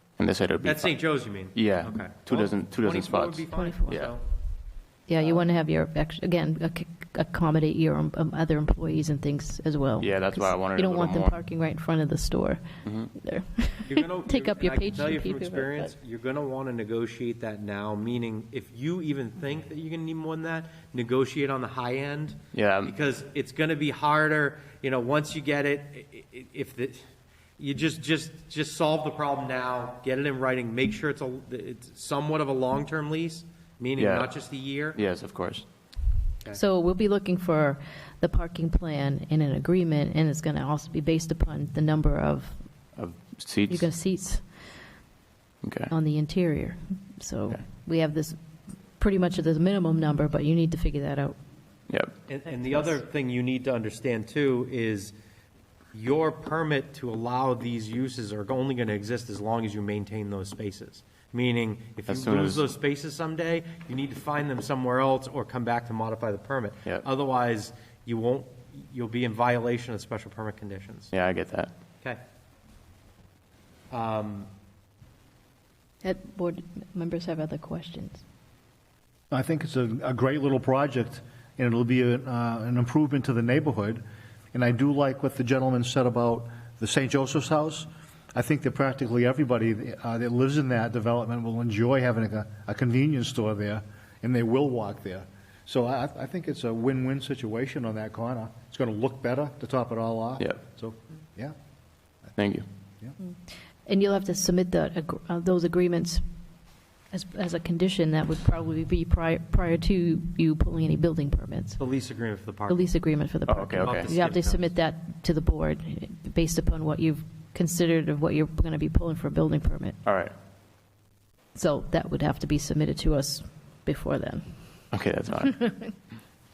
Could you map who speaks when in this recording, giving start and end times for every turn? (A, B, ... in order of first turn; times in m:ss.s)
0:00.2-0:04.1 A
0:00.6-0:04.2 B
0:03.5-0:04.0 C
0:05.1-0:15.9 C
0:10.0-0:11.4 A
0:12.8-0:13.1 A
0:13.9-0:27.0 B
0:22.5-0:23.0 A
0:27.6-0:35.0 B
0:34.0-0:34.3 A
0:34.9-0:35.6 A
0:36.5-0:42.7 C
0:43.0-0:43.9 A
0:43.7-0:44.6 C
0:45.6-0:45.9 A
0:45.9-0:48.4 C
0:49.0-0:51.4 C
0:52.3-0:55.1 B
0:52.5-0:52.9 C
0:55.9-1:11.1 B
1:02.1-1:02.7 A
1:11.1-1:11.7 A
1:13.9-1:14.5 B
1:16.0-1:18.2 C
1:19.3-1:41.5 D
1:42.4-1:42.7 A
1:43.9-1:46.2 C
1:47.1-1:51.8 C
1:51.8-1:53.0 B
1:52.7-2:00.0 C
1:53.5-1:54.1 A
1:53.8-1:54.7 B
2:00.0-2:00.3 A
2:01.6-2:04.8 C
2:04.9-2:05.6 A
2:05.5-2:05.9 C